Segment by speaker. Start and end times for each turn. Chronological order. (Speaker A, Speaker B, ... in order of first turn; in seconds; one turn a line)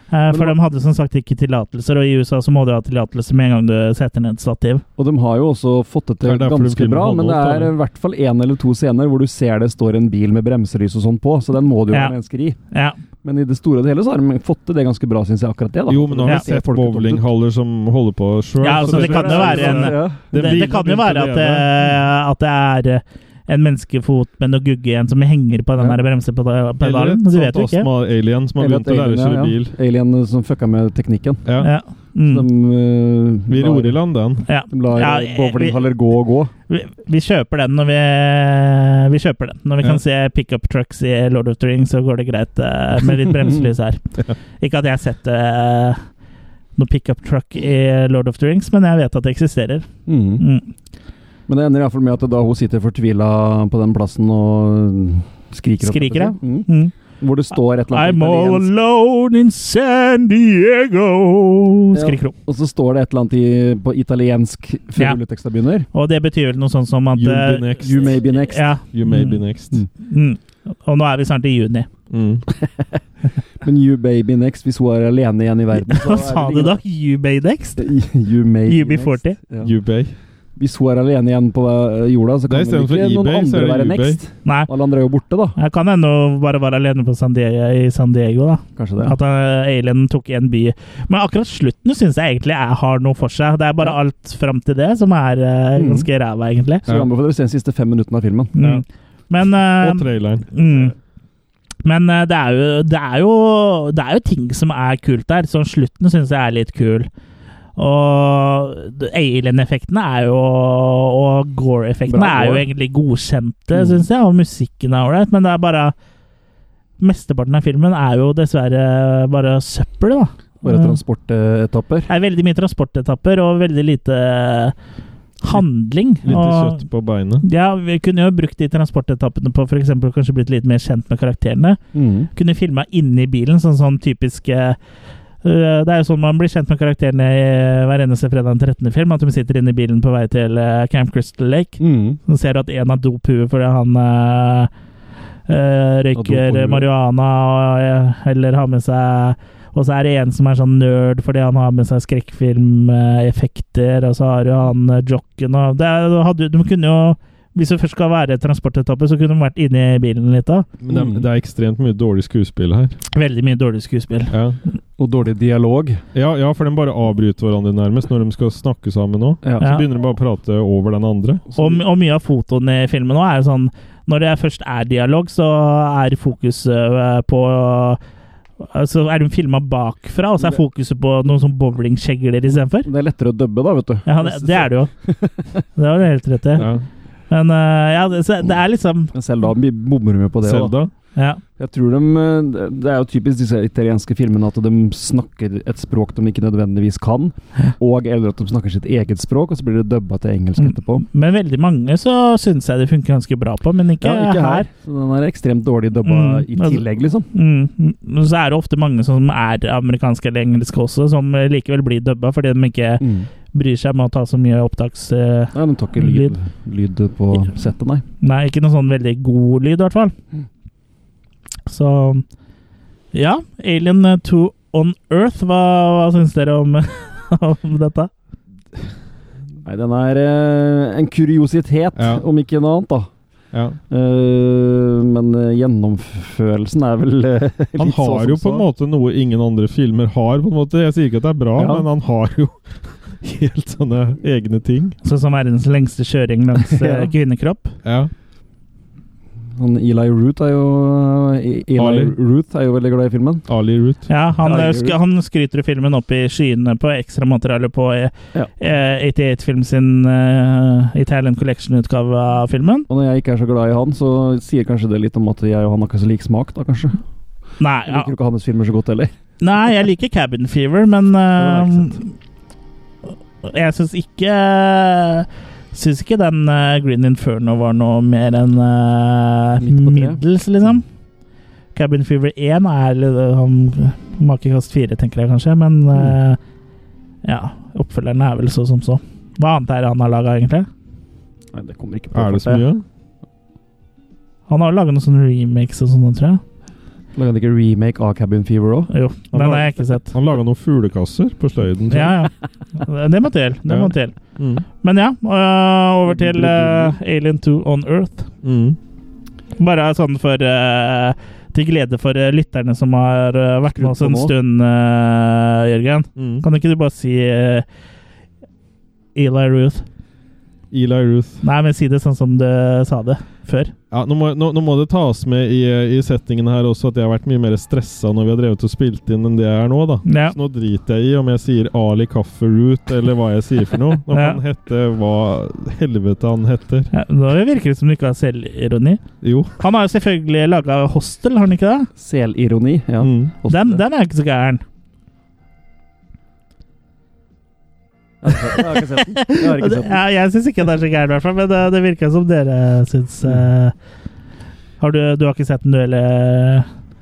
Speaker A: 0.1-4.8
Speaker B: 0.3-0.6
Speaker B: 5.0-12.6
Speaker C: 6.2-7.7
Speaker A: 12.7-13.0
Speaker B: 13.2-17.3
Speaker C: 15.9-21.7
Speaker A: 18.6-27.9
Speaker B: 18.7-20.2
Speaker C: 26.8-29.7
Speaker B: 28.6-31.4
Speaker A: 31.6-32.5
Speaker B: 32.2-34.0
Speaker C: 33.5-34.5
Speaker A: 34.5-35.9
Speaker B: 34.7-36.5
Speaker A: 36.7-44.0
Speaker B: 43.3-43.7
Speaker A: 44.6-46.0
Speaker A: 46.8-49.9
Speaker B: 50.1-50.4
Speaker A: 50.4-50.7
Speaker B: 51.5-56.7
Speaker A: 55.8-56.9
Speaker B: 57.2-58.7
Speaker A: 57.9-62.3
Speaker B: 61.9-65.9
Speaker A: 65.9-69.4
Speaker C: 67.1-68.2
Speaker B: 67.8-68.7
Speaker C: 68.9-69.8
Speaker A: 70.0-71.9
Speaker C: 72.1-72.5
Speaker B: 73.6-76.8
Speaker A: 75.8-77.9
Speaker B: 77.8-79.7
Speaker A: 78.7-79.4
Speaker C: 79.6-80.1
Speaker B: 80.6-85.6
Speaker C: 82.5-84.2
Speaker A: 85.6-96.8
Speaker B: 88.8-89.2
Speaker B: 95.8-96.1
Speaker B: 96.8-98.5
Speaker A: 98.6-100.9
Speaker C: 99.8-100.5
Speaker A: 101.8-107.1
Speaker A: 107.8-115.9
Speaker B: 112.1-112.7
Speaker B: 113.7-114.1
Speaker A: 117.0-121.0
Speaker B: 120.6-122.1
Speaker A: 122.1-124.8
Speaker A: 125.4-126.8
Speaker C: 126.2-127.4
Speaker A: 127.4-131.8
Speaker B: 131.9-132.3
Speaker A: 132.3-134.8
Speaker A: 135.4-144.7
Speaker B: 141.8-142.2
Speaker A: 145.5-160.7
Speaker B: 146.1-146.9
Speaker C: 160.8-163.0
Speaker B: 160.9-161.3
Speaker A: 163.1-164.3
Speaker C: 164.3-164.6
Speaker B: 165.0-166.0
Speaker C: 166.1-171.4
Speaker B: 169.4-169.7
Speaker A: 169.6-169.9
Speaker B: 171.5-171.8
Speaker A: 171.6-178.0
Speaker A: 178.6-182.9
Speaker B: 182.8-185.6
Speaker A: 184.1-184.9
Speaker A: 185.8-186.7
Speaker C: 186.6-186.8
Speaker A: 187.3-189.1
Speaker B: 189.1-190.8
Speaker C: 190.4-190.9
Speaker A: 191.2-191.4
Speaker B: 191.6-201.1
Speaker A: 200.6-204.7
Speaker B: 204.0-207.3
Speaker A: 206.1-216.3
Speaker B: 213.0-213.3
Speaker B: 215.5-218.0
Speaker A: 218.2-220.1
Speaker A: 221.7-222.2
Speaker A: 223.1-228.1
Speaker B: 229.6-233.1
Speaker C: 231.9-232.2
Speaker C: 233.5-233.8
Speaker B: 233.9-238.7
Speaker C: 237.8-245.0
Speaker B: 241.6-241.9
Speaker A: 245.0-247.8
Speaker B: 246.6-247.1
Speaker C: 247.8-248.1
Speaker B: 249.6-253.4
Speaker C: 251.8-252.1
Speaker C: 253.5-254.1
Speaker A: 254.1-262.9
Speaker B: 254.4-255.0
Speaker B: 262.9-267.0
Speaker A: 267.6-268.1
Speaker B: 267.9-269.1
Speaker A: 269.4-272.1
Speaker B: 271.4-272.0
Speaker A: 273.4-280.8
Speaker B: 279.6-280.2
Speaker A: 281.7-286.4
Speaker A: 287.2-290.7
Speaker B: 291.5-292.6
Speaker C: 292.1-292.8
Speaker A: 294.5-296.4
Speaker B: 297.1-298.9
Speaker A: 298.9-300.1
Speaker C: 299.3-302.2
Speaker A: 301.9-304.2
Speaker C: 303.7-304.6
Speaker A: 304.8-308.3
Speaker B: 306.1-306.9
Speaker C: 308.4-308.8
Speaker A: 309.6-317.7
Speaker B: 313.7-314.3
Speaker C: 316.2-316.4
Speaker A: 319.1-319.9
Speaker C: 320.7-321.4
Speaker A: 321.4-323.7
Speaker C: 323.9-336.9
Speaker A: 330.1-330.4
Speaker A: 334.1-334.4
Speaker A: 336.9-339.0
Speaker C: 339.2-339.5
Speaker A: 339.6-341.9
Speaker B: 342.0-343.8
Speaker C: 343.0-343.3
Speaker A: 343.5-344.6
Speaker B: 348.2-350.0
Speaker A: 349.0-353.7
Speaker A: 354.8-356.7